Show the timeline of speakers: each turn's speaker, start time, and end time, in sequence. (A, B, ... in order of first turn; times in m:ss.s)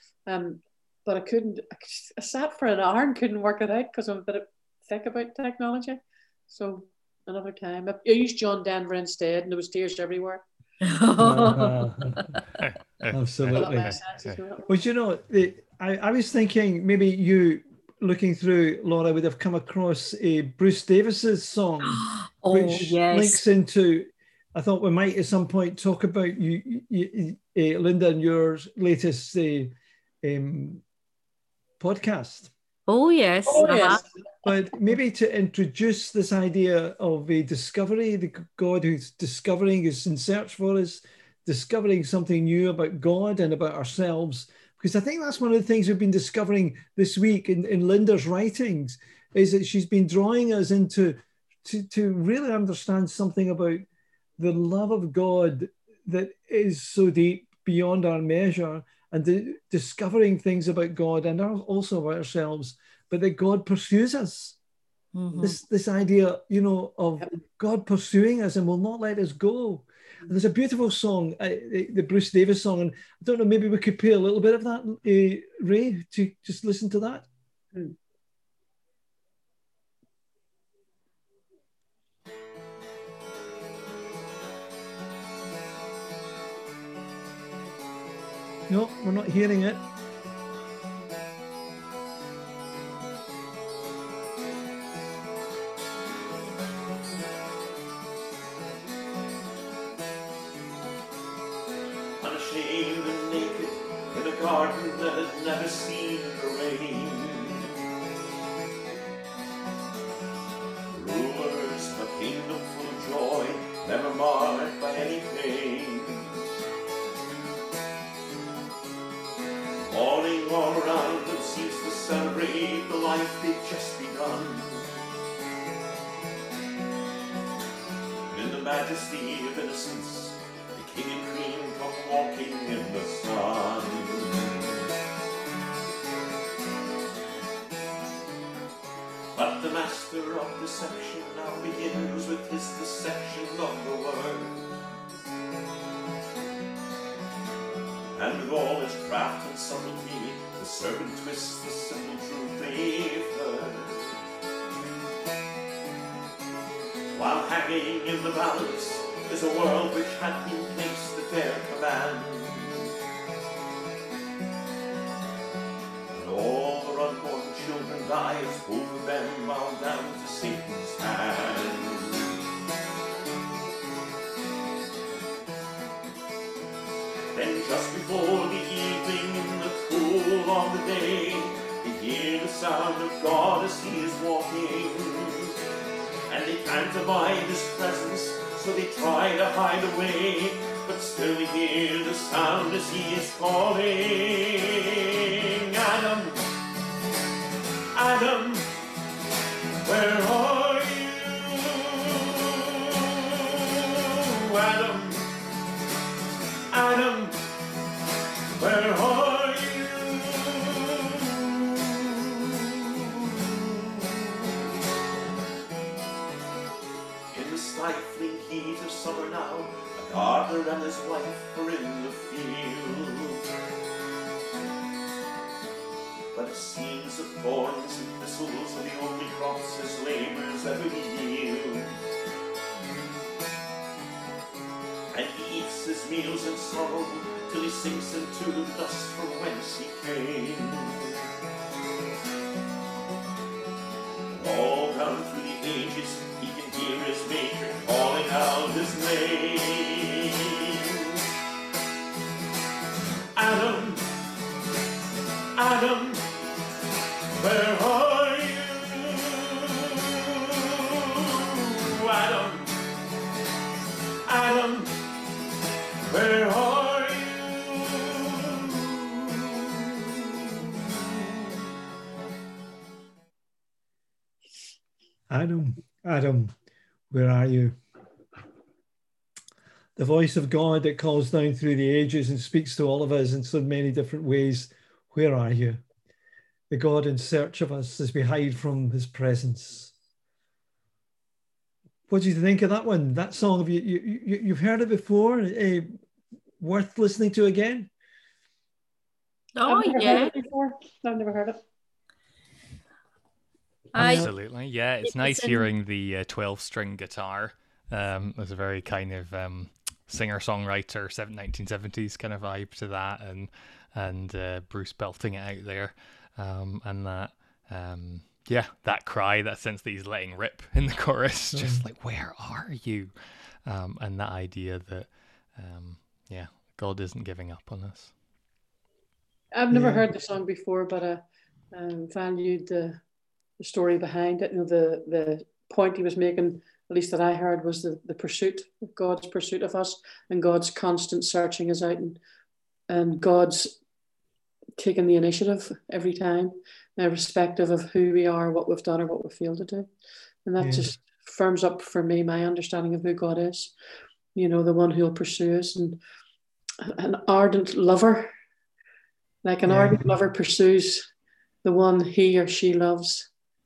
0:00.2-0:10.4 A
0:10.8-0:12.4 B
0:11.2-0:12.3 C
0:12.6-0:14.4 D
0:13.1-0:14.0 C
0:13.5-0:14.7 A
0:14.7-0:30.8 C
0:21.9-0:23.4 B
0:31.8-0:32.5 C
0:32.9-0:34.0 B
0:33.5-0:34.1 A
0:34.4-0:53.8 C
0:54.4-1:04.6 C
1:05.1-1:05.6 B
1:05.3-1:17.3 C
1:28.7-1:29.8 C
1:42.2-1:47.7 E
1:50.9-1:56.4 E
1:59.9-2:05.0 E
2:08.3-2:14.8 E
2:19.3-2:24.7 E
2:28.1-2:34.2 E
2:37.1-2:42.9 E
2:46.1-2:52.4 E
2:57.3-3:05.5 E
3:06.3-3:16.4 E
3:17.9-3:18.7 E
3:19.8-3:25.3 E
3:26.7-3:27.4 E
3:28.6-3:34.5 E
3:37.3-3:43.5 E
3:46.3-3:52.0 E
3:55.1-4:01.2 E
4:04.3-4:11.2 E
4:13.4-4:14.0 E
4:15.6-4:16.3 E
4:17.4-4:22.8 E
4:24.2-4:24.9 E
4:26.1-4:31.6 E
4:35.3-4:36.5 C
4:37.1-4:37.8 C
4:40.0-4:45.8 C
4:46.7-4:49.9 C
4:52.1-4:55.9 C
4:56.6-4:57.9 C
4:59.6-5:00.3 B
4:59.7-5:01.6 A
5:03.9-5:04.3 B
5:03.9-5:23.1 D
5:04.0-5:04.3 C
5:05.0-5:05.7 B
5:21.5-5:21.8 C
5:23.6-5:28.1 D
5:29.5-5:33.0 A
5:29.7-5:30.1 C
5:33.6-5:42.2 A
5:42.9-5:43.8 A
5:44.8-5:49.9 A
5:50.4-5:53.7 A
5:50.6-5:50.9 C
5:54.3-5:56.0 A
5:56.8-5:58.3 A
5:59.4-6:01.1 A
5:59.6-6:00.1 C
6:01.6-6:03.3 A